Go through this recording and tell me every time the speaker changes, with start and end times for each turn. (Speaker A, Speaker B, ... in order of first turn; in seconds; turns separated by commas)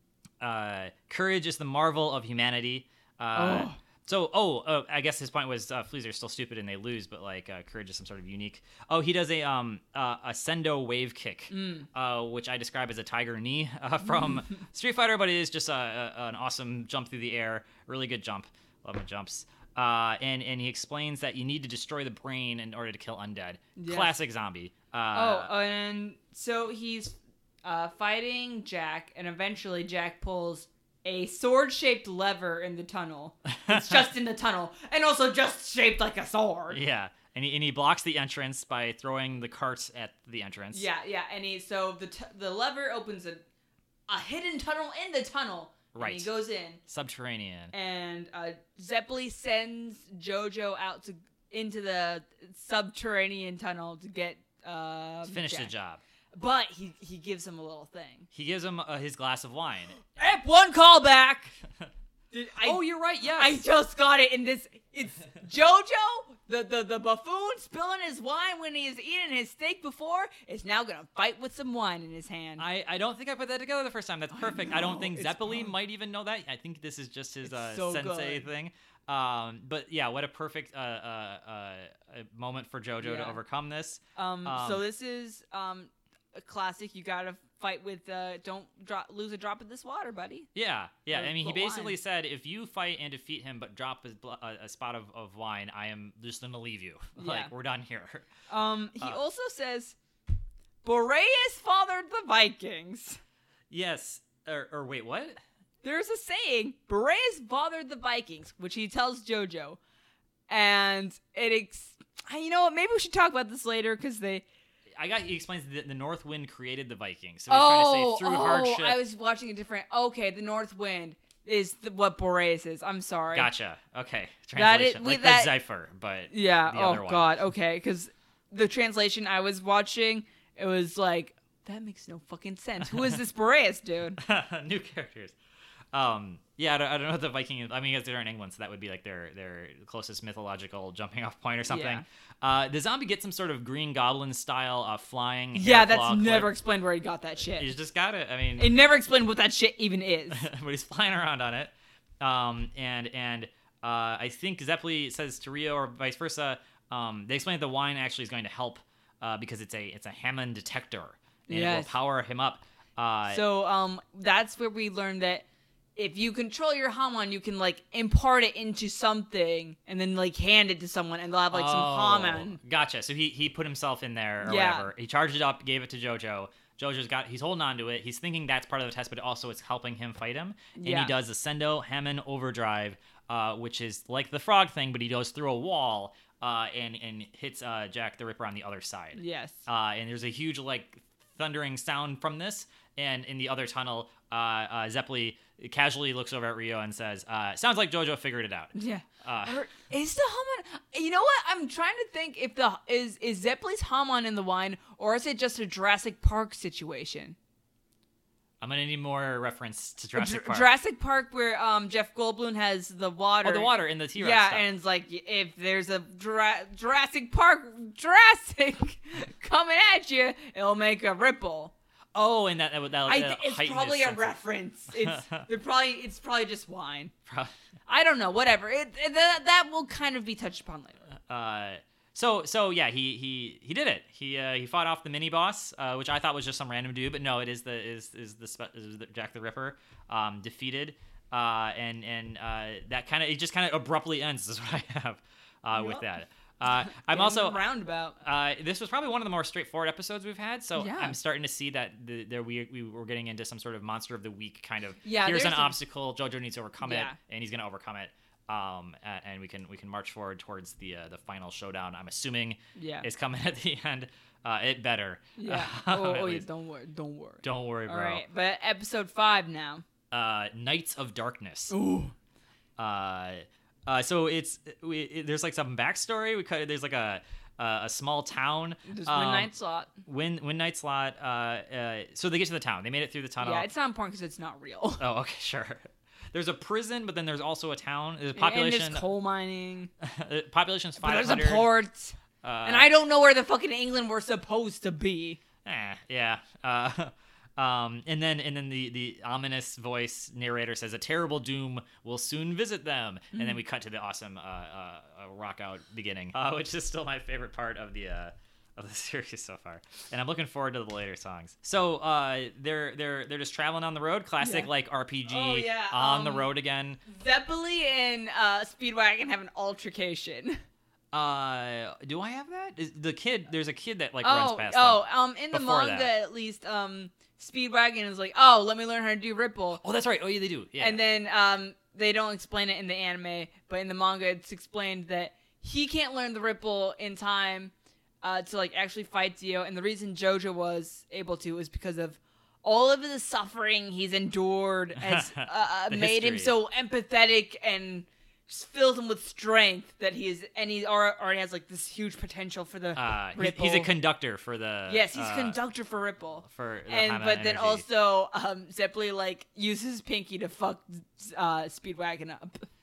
Speaker A: 0.4-25.5, Speaker B: 3.3-3.8, Speaker B: 11.5-11.9, Speaker B: 23.8-24.1, Speaker B: 25.1-36.8, Speaker A: 33.6-34.0, Speaker A: 36.7-40.9, Speaker B: 40.7-43.4, Speaker B: 44.1-46.8, Speaker A: 45.9-46.3, Speaker A: 46.9-47.7, Speaker B: 47.7-55.7, Speaker A: 55.2-56.0, Speaker B: 56.3-58.3, Speaker A: 58.3-60.0, Speaker B: 60.1-61.5, Speaker B: 62.3-72.6, Speaker A: 62.6-63.6, Speaker A: 72.6-84.8, Speaker B: 74.5-75.7, Speaker B: 77.4-78.5, Speaker B: 83.0-83.4, Speaker B: 84.2-90.5, Speaker A: 90.5-98.2, Speaker B: 91.1-92.0, Speaker B: 97.2-97.5, Speaker B: 98.5-100.0, Speaker B: 100.8-103.2, Speaker A: 103.7-105.3, Speaker B: 105.8-109.8, Speaker B: 110.5-114.4, Speaker A: 115.0-119.0, Speaker B: 117.5-123.5, Speaker A: 123.3-127.3, Speaker B: 124.5-125.5, Speaker B: 126.3-134.2, Speaker A: 132.8-133.2, Speaker A: 134.2-135.3, Speaker A: 135.9-146.5, Speaker B: 141.7-142.0, Speaker B: 145.5-147.7, Speaker A: 147.5-148.7, Speaker B: 148.6-150.5, Speaker A: 150.3-163.4, Speaker B: 161.5-161.9, Speaker B: 163.3-165.4, Speaker B: 165.9-172.6, Speaker A: 171.5-199.6, Speaker B: 174.4-174.9, Speaker B: 180.7-181.1, Speaker B: 189.2-189.6, Speaker B: 198.7-207.3, Speaker A: 208.6-210.7, Speaker B: 210.2-221.7, Speaker A: 213.4-214.7, Speaker A: 222.1-224.3, Speaker B: 223.1-227.1, Speaker A: 225.0-225.4, Speaker A: 227.3-227.5, Speaker B: 227.9-231.0, Speaker A: 231.3-247.6, Speaker B: 245.7-246.1, Speaker B: 246.8-248.2, Speaker A: 248.2-266.4, Speaker B: 250.8-251.2, Speaker B: 255.0-255.8, Speaker B: 256.8-257.2, Speaker B: 262.8-263.1, Speaker B: 265.4-269.8, Speaker A: 267.4-268.2, Speaker A: 270.1-271.7, Speaker B: 271.7-272.1, Speaker A: 272.8-279.5, Speaker B: 278.9-279.9, Speaker A: 280.0-283.7, Speaker B: 283.4-285.0, Speaker A: 285.0-289.0, Speaker B: 288.3-289.9, Speaker A: 290.0-291.7, Speaker B: 291.0-295.4, Speaker A: 292.4-292.9, Speaker A: 295.6-317.0, Speaker B: 314.4-314.7, Speaker B: 315.3-316.5, Speaker B: 317.1-320.6, Speaker A: 321.1-326.1, Speaker B: 324.2-329.8, Speaker A: 329.8-331.0, Speaker B: 330.8-353.9, Speaker A: 345.0-346.5, Speaker A: 352.9-355.6, Speaker B: 354.9-362.6, Speaker A: 356.4-357.8